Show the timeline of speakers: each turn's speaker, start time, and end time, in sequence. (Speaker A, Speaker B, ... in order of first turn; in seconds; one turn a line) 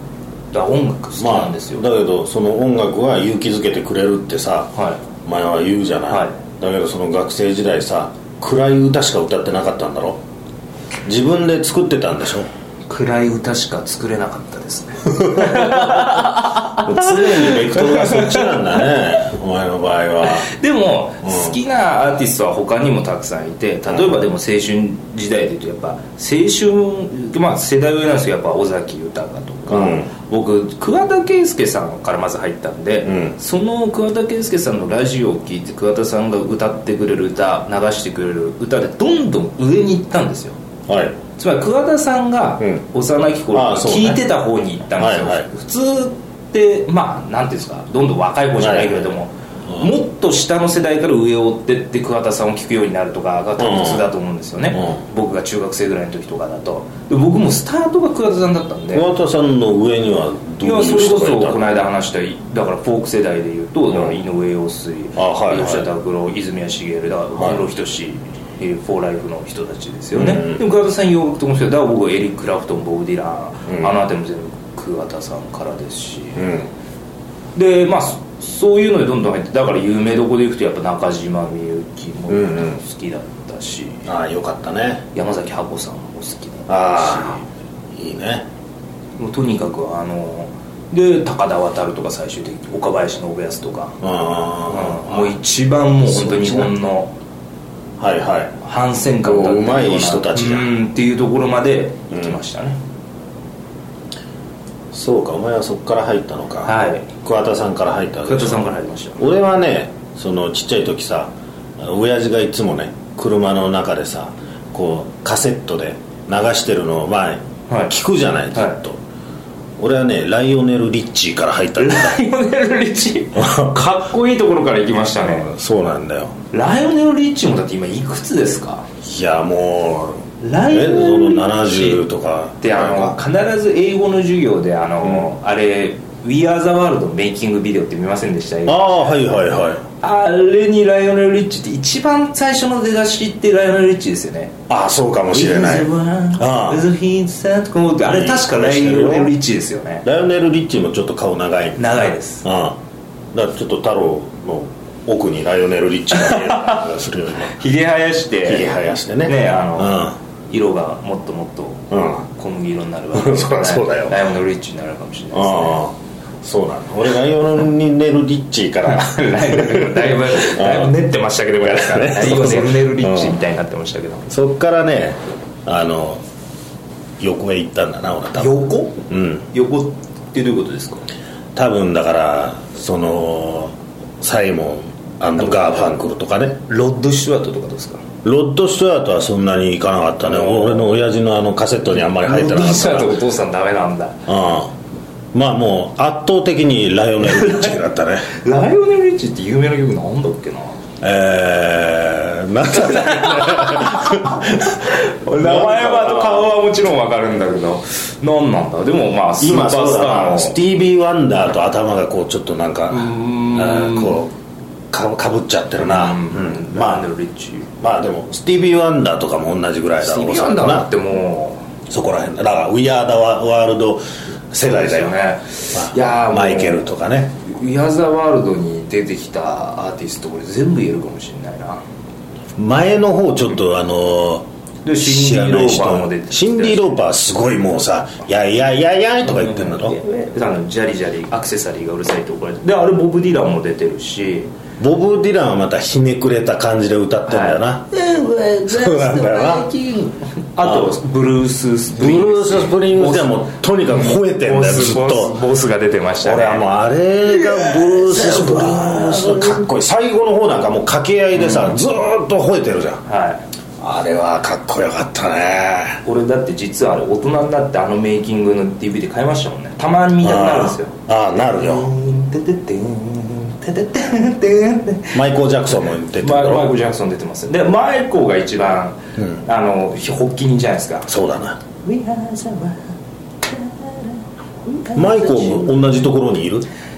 Speaker A: 0.5-1.9
Speaker B: 1.2-10.2
Speaker A: 6.1-6.3
Speaker B: 11.1-12.5
Speaker A: 12.9-18.9
Speaker B: 15.2-20.5
Speaker A: 20.2-40.6
Speaker B: 21.2-21.6
Speaker B: 29.7-30.1
Speaker B: 33.0-33.4
Speaker B: 40.9-41.2
Speaker A: 41.4-59.1
Speaker B: 43.5-44.2
Speaker B: 45.0-45.5
Speaker B: 48.6-49.0
Speaker B: 53.6-54.1
Speaker B: 58.9-61.6
Speaker A: 60.6-76.5
Speaker B: 65.2-65.9
Speaker B: 67.4-67.6
Speaker B: 70.1-70.6
Speaker B: 73.7-73.9
Speaker B: 76.4-76.7
Speaker A: 77.5-84.1
Speaker B: 82.3-82.8
Speaker B: 84.1-85.1
Speaker A: 85.1-87.4
Speaker B: 86.7-87.4
Speaker B: 87.9-88.5
Speaker A: 89.2-94.0
Speaker B: 94.0-95.3
Speaker A: 94.7-97.1
Speaker B: 96.1-96.7
Speaker B: 98.0-98.6
Speaker A: 98.6-102.8
Speaker B: 99.2-100.7
Speaker B: 102.1-102.4
Speaker B: 104.9-119.0
Speaker A: 106.7-107.1
Speaker A: 108.3-109.2
Speaker A: 117.7-117.9
Speaker A: 118.5-118.8
Speaker B: 119.8-122.2
Speaker A: 121.8-125.5
Speaker B: 123.4-123.8
Speaker B: 125.2-126.3
Speaker A: 126.5-128.9
Speaker B: 129.0-133.2
Speaker A: 130.4-132.0
Speaker A: 132.6-139.2
Speaker B: 138.7-139.8
Speaker A: 140.0-144.6
Speaker B: 144.7-146.8
Speaker A: 145.3-150.1
Speaker B: 148.1-149.4
Speaker B: 150.0-152.8
Speaker A: 151.8-152.4
Speaker B: 153.3-157.6
Speaker A: 156.1-156.9
Speaker A: 157.5-158.7
Speaker B: 158.4-160.2
Speaker A: 159.3-165.8
Speaker B: 161.9-162.3
Speaker B: 163.2-164.2
Speaker B: 165.3-170.9
Speaker A: 168.9-174.3
Speaker B: 171.6-173.4
Speaker B: 174.3-176.2
Speaker B: 177.2-179.5
Speaker A: 178.4-181.0
Speaker B: 181.6-186.6
Speaker A: 185.4-185.9
Speaker A: 186.7-188.0
Speaker B: 188.2-193.2
Speaker A: 190.2-191.0
Speaker A: 192.2-194.3
Speaker B: 194.3-194.7
Speaker B: 195.3-198.3
Speaker A: 197.3-200.8
Speaker B: 201.0-206.5
Speaker A: 202.7-210.6
Speaker B: 209.4-214.3
Speaker A: 212.9-214.2
Speaker B: 214.9-217.1
Speaker A: 215.8-217.7
Speaker B: 217.8-220.9
Speaker A: 220.0-221.6
Speaker B: 221.9-225.2
Speaker A: 224.6-226.9
Speaker B: 225.7-227.4
Speaker A: 227.4-231.8
Speaker B: 232.6-234.5
Speaker A: 234.8-237.1
Speaker B: 235.0-240.0
Speaker A: 239.2-244.5
Speaker B: 244.8-247.9
Speaker A: 247.3-253.3
Speaker B: 248.7-249.7
Speaker B: 250.6-251.0
Speaker B: 252.0-255.4
Speaker A: 253.9-256.7
Speaker B: 256.2-263.0
Speaker A: 257.3-259.6
Speaker A: 261.4-261.8
Speaker A: 263.1-263.4
Speaker B: 263.8-266.0
Speaker A: 266.0-275.2
Speaker B: 270.2-271.9
Speaker B: 275.1-276.7
Speaker A: 276.2-281.1
Speaker B: 281.1-281.6
Speaker A: 281.8-285.8
Speaker B: 284.9-286.7